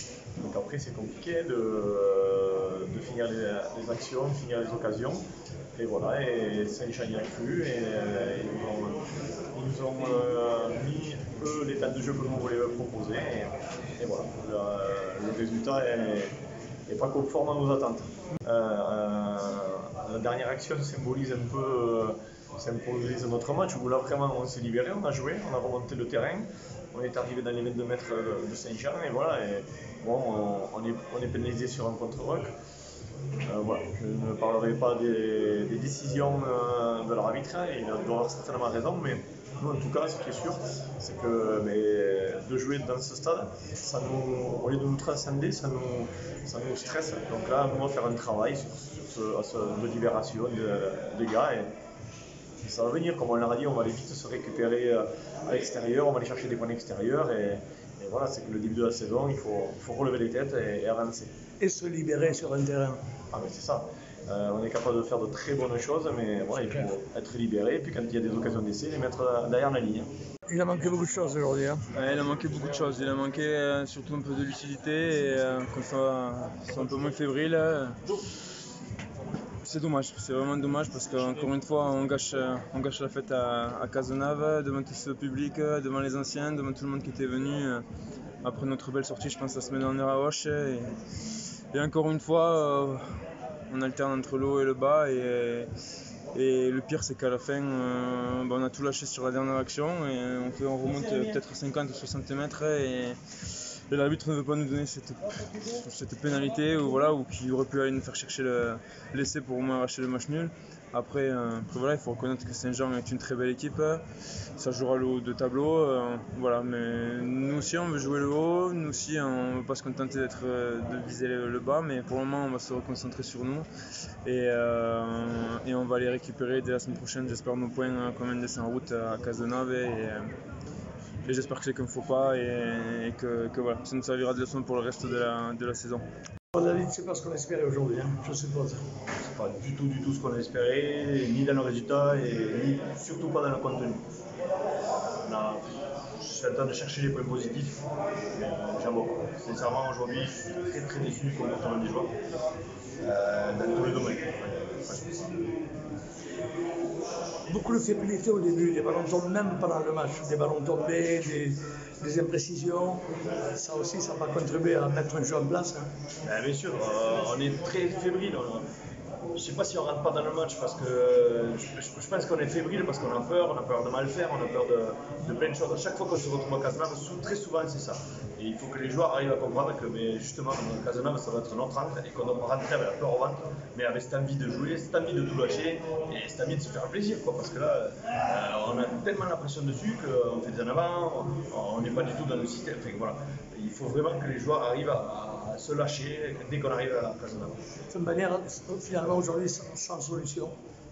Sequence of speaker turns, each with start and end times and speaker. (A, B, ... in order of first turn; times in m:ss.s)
0:00.4-0:05.2 A
0:05.8-0:16.3 A
0:16.9-0:32.5 A
0:33.4-0:51.7 A
0:52.6-1:01.3 A
1:01.6-1:03.0 B
1:03.3-1:10.1 A
1:10.5-1:11.9 B
1:11.9-1:18.0 C
1:19.6-1:27.8 C
1:28.4-1:31.0 C
1:31.7-1:35.7 C
1:36.3-1:54.0 C
1:54.6-2:03.7 C
2:04.2-2:10.3 C
2:11.2-2:16.0 C
2:16.6-2:18.8 B
2:19.3-2:24.0 A
2:25.2-2:27.8 A
2:28.4-2:32.2 A
2:33.0-2:35.3 A
2:37.5-2:45.9 B
2:46.2-2:48.7 A
2:49.3-3:17.6 A
3:17.9-3:20.6 B